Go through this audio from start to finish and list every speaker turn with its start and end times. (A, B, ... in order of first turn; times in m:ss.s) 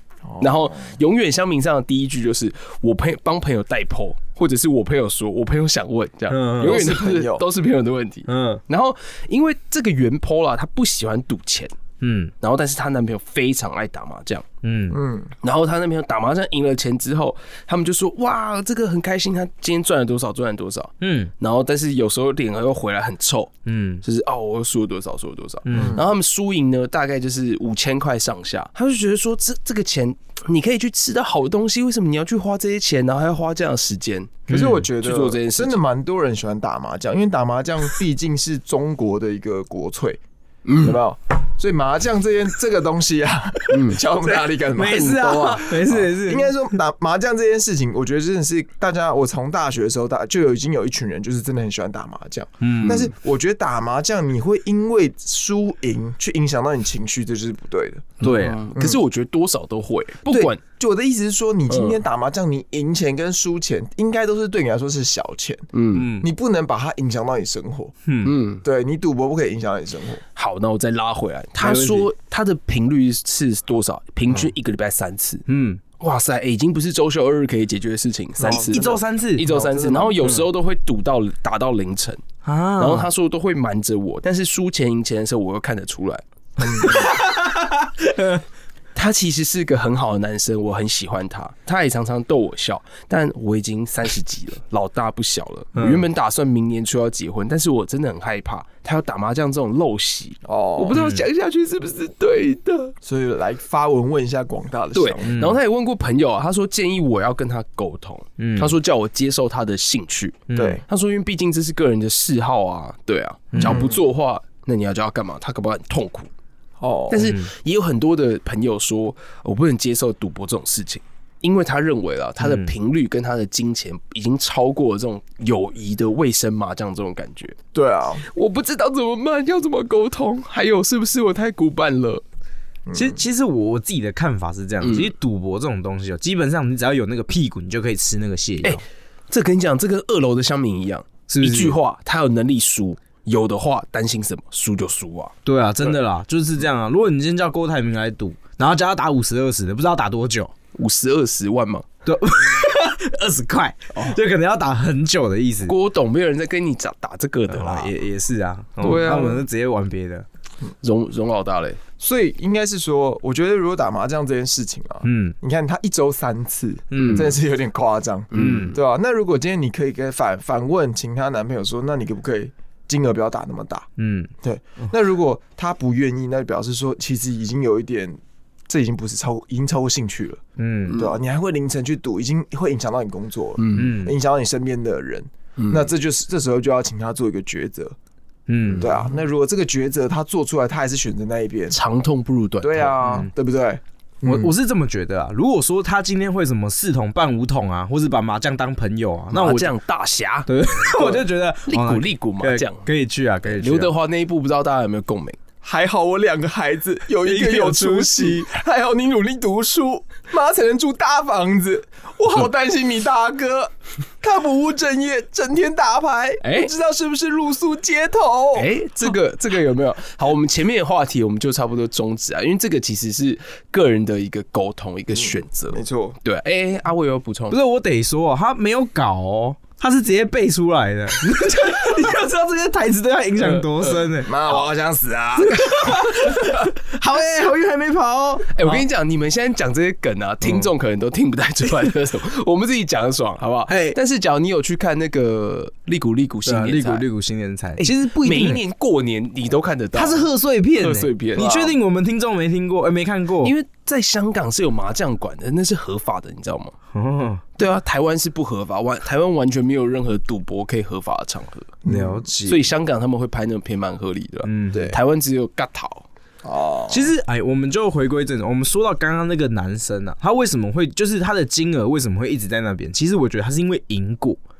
0:00.2-0:00.9 A
0:00.4-0:11.7 B
0:06.3-0:06.8 C
0:06.6-0:07.4 A
0:08.3-0:08.6 C
0:12.0-0:12.3 C
0:12.4-0:14.4 B
0:14.6-0:15.0 C
0:14.9-0:15.3 A
0:15.4-0:35.8 B
0:21.0-0:21.3 C
0:23.6-0:24.0 C
0:25.6-0:26.0 C
0:25.7-0:26.1 A
0:34.5-0:34.8 C
0:34.5-0:40.2 A
0:40.6-0:41.0 B
0:40.8-0:58.2 A
0:43.7-0:44.0 B
0:44.3-0:46.5 C
0:52.6-0:53.1 C
0:58.2-0:58.6 C
0:58.2-1:00.6 B
0:58.7-0:59.0 A
1:00.3-1:07.9 A
1:01.7-1:02.0 B
1:05.7-1:06.1 B
1:05.9-1:06.3 C
1:08.1-1:08.3 C
1:08.2-1:08.6 B
1:08.6-1:10.2 A
1:10.4-1:15.4 B
1:11.6-1:12.1 C
1:15.5-1:15.8 C
1:16.0-1:22.2 B
1:18.4-1:20.4 A
1:18.5-1:19.4 C
1:22.4-1:23.1 C
1:22.8-1:26.2 B
1:26.6-1:27.0 A
1:26.6-1:28.4 C
1:28.9-1:42.9 B
1:35.7-1:36.0 C
1:40.4-1:41.0 A
1:40.9-1:41.2 C
1:43.0-1:45.4 A
1:44.9-1:56.3 B
1:45.2-1:45.6 C
1:48.4-1:48.7 C
1:50.5-1:50.8 C
1:50.5-1:50.8 A
1:53.5-1:53.8 C
1:53.6-1:54.0 A
1:56.8-1:57.2 A
1:57.1-2:07.6 B
1:57.2-1:57.5 C
2:02.4-2:02.7 C
2:07.7-2:08.2 A
2:08.3-2:12.2 B
2:12.9-2:13.2 A
2:12.9-2:18.8 C
2:14.8-2:15.1 B
2:18.6-2:25.9 B
2:21.3-2:21.8 C
2:25.4-2:30.5 C
2:30.7-2:31.9 B
2:32.0-2:35.7 C
2:35.6-2:37.9 B
2:37.5-2:40.2 C
2:38.8-2:39.4 B
2:38.8-2:39.2 A
2:40.8-2:41.8 B
2:42.0-2:53.9 A
2:45.0-2:45.3 C
2:46.9-2:47.3 C
2:46.9-2:47.3 B
2:48.3-2:48.8 B
2:48.3-2:48.8 C
2:54.0-2:54.3 C
2:54.4-3:08.0 A
3:00.6-3:01.0 C
3:03.6-3:03.9 B
3:03.7-3:04.1 C
3:05.6-3:05.9 B
3:08.5-3:08.9 C
3:08.7-3:09.0 B
3:08.8-3:11.8 A
3:11.7-3:13.0 B
3:12.6-3:14.5 A
3:13.0-3:13.3 C
3:14.2-3:19.7 C
3:19.3-3:22.9 B
3:20.5-3:23.9 C
3:23.4-3:25.4 B
3:25.6-3:39.1 A
3:27.2-3:28.4 C
3:36.4-3:36.7 B
3:38.5-3:47.6 B
3:45.2-3:46.2 A
3:47.5-3:54.5 C
3:53.4-3:54.1 B
3:54.2-3:56.4 A
3:55.4-3:58.8 C
3:58.5-4:07.0 B
4:03.7-4:04.0 C
4:06.4-4:08.6 C
4:07.8-4:11.5 B
4:09.9-4:13.5 C
4:11.4-4:11.7 A
4:13.4-4:16.7 B
4:16.9-4:17.4 C
4:17.6-4:21.8 B
4:21.8-4:22.3 A
4:21.8-4:22.6 C
4:22.4-4:26.0 B
4:24.4-4:24.9 C
4:24.7-4:25.0 A
4:26.4-4:27.1 A
4:26.9-4:34.4 C